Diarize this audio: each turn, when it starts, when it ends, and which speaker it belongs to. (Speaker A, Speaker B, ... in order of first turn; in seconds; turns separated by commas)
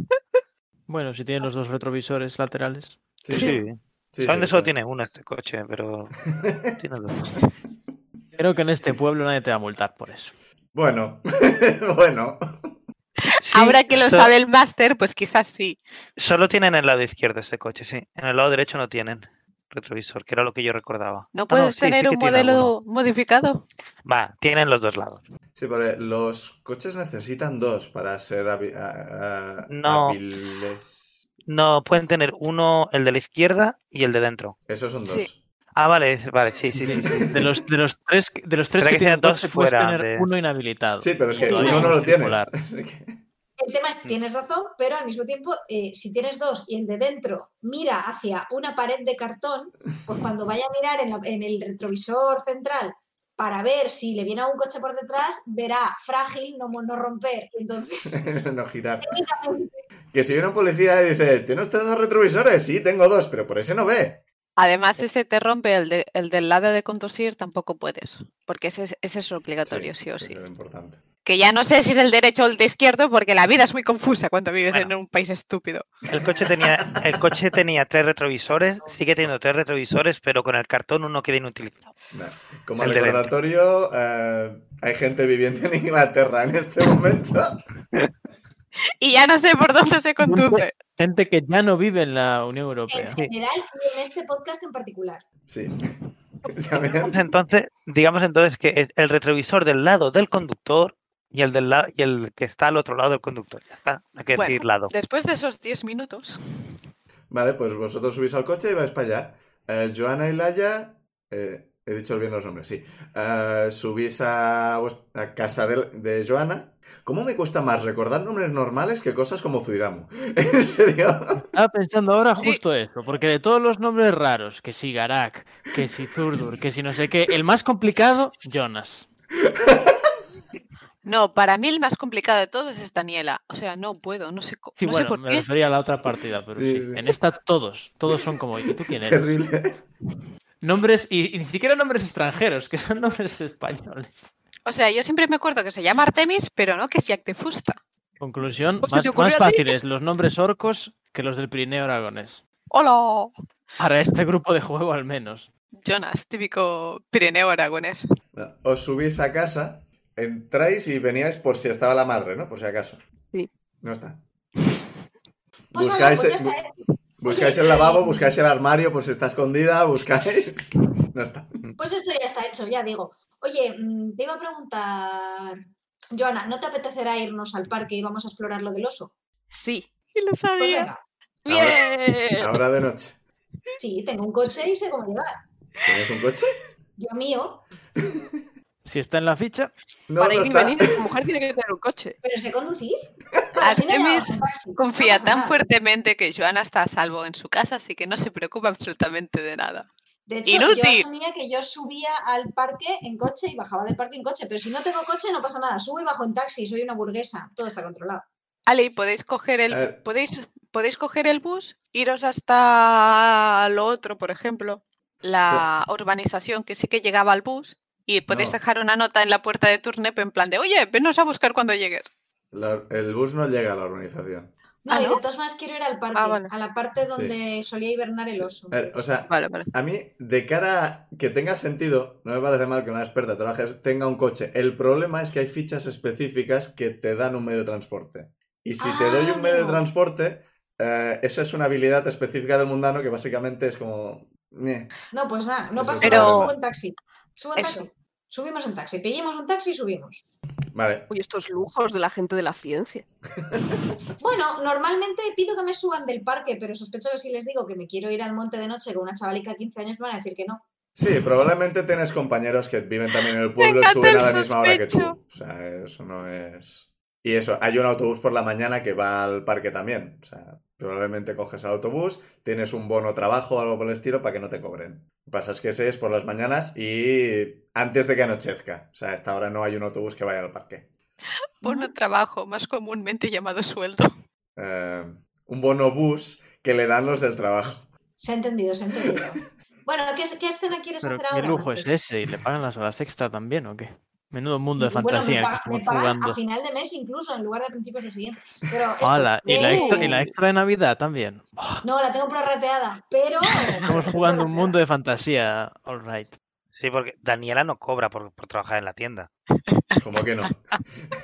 Speaker A: 0.9-3.2, Speaker B: 3.2-3.6, Speaker C: 3.3-7.3, Speaker D: 3.3-3.6, Speaker B: 4.1-4.7, Speaker B: 6.3-6.8, Speaker A: 8.4-10.4, Speaker B: 10.7-12.8, Speaker D: 13.3-15.8, Speaker C: 13.4-14.3, Speaker C: 16.2-22.7, Speaker D: 21.3-23.7, Speaker C: 24.1-25.2, Speaker B: 25.6-31.3, Speaker C: 29.7-30.2, Speaker C: 31.5-34.6, Speaker B: 34.7-35.4, Speaker C: 35.8-37.3, Speaker A: 36.8-42.5, Speaker B: 36.9-37.4, Speaker C: 38.8-40.3, Speaker B: 41.0-43.2, Speaker E: 41.4-42.0, Speaker E: 43.6-58.3, Speaker B: 58.0-59.2, Speaker E: 59.0-59.8, Speaker B: 60.1-64.2, Speaker D: 64.6-70.4, Speaker B: 69.7-71.0, Speaker D: 71.2-75.9, Speaker C: 76.1-81.9, Speaker B: 82.1-87.6, Speaker C: 82.8-83.3, Speaker D: 89.0-90.7, Speaker A: 90.2-93.2, Speaker E: 92.9-95.2, Speaker B: 95.5-95.9, Speaker B: 96.5-97.2, Speaker C: 97.0-104.9, Speaker D: 104.3-106.4, Speaker B: 107.3-121.5, Speaker A: 121.5-129.1, Speaker B: 129.4-130.1, Speaker D: 131.0-135.5, Speaker A: 134.8-139.4, Speaker B: 136.5-137.1, Speaker B: 138.1-139.8, Speaker A: 140.6-144.3, Speaker D: 144.7-147.8, Speaker A: 148.2-152.4, Speaker F: 148.8-149.7, Speaker D: 152.7-153.3, Speaker A: 153.8-155.5, Speaker D: 155.8-158.0, Speaker B: 158.3-163.0, Speaker B: 163.8-164.2, Speaker B: 165.7-166.6, Speaker E: 165.7-166.7, Speaker B: 167.2-171.6, Speaker E: 167.3-168.1, Speaker E: 171.8-175.6, Speaker E: 176.1-179.1, Speaker F: 179.5-179.9, Speaker D: 180.2-180.9, Speaker E: 180.6-181.0, Speaker F: 181.4-182.5, Speaker B: 181.5-181.8, Speaker B: 182.4-183.2, Speaker E: 183.8-185.3, Speaker B: 185.8-186.5, Speaker E: 187.0-187.6, Speaker B: 188.0-188.3, Speaker A: 188.8-189.7, Speaker B: 190.1-191.1, Speaker F: 190.2-192.2, Speaker E: 192.2-193.0, Speaker E: 193.6-195.6, Speaker D: 193.6-199.9, Speaker E: 200.3-208.3, Speaker D: 200.5-201.1, Speaker D: 208.7-222.1, Speaker B: 209.7-210.0, Speaker B: 215.4-215.7, Speaker B: 218.3-218.6, Speaker B: 222.5-224.5, Speaker E: 224.9-229.0, Speaker D: 224.9-225.2, Speaker D: 226.2-226.5, Speaker B: 228.3-244.9, Speaker D: 229.3-229.7, Speaker E: 238.8-239.8, Speaker E: 245.1-250.2, Speaker B: 245.8-246.5, Speaker D: 246.0-246.5, Speaker B: 250.7-251.1, Speaker F: 251.1-253.1, Speaker B: 253.5-253.9, Speaker E: 254.2-260.6, Speaker B: 261.0-280.9, Speaker D: 263.6-265.2, Speaker D: 281.6-284.1, Speaker B: 284.6-287.9, Speaker E: 288.2-291.9, Speaker B: 289.1-289.4, Speaker A: 291.0-296.4, Speaker E: 294.8-300.2, Speaker A: 299.0-301.9, Speaker D: 299.6-300.0, Speaker F: 299.8-300.0, Speaker E: 301.8-304.8, Speaker A: 303.9-306.4, Speaker C: 306.8-309.3, Speaker B: 310.0-311.1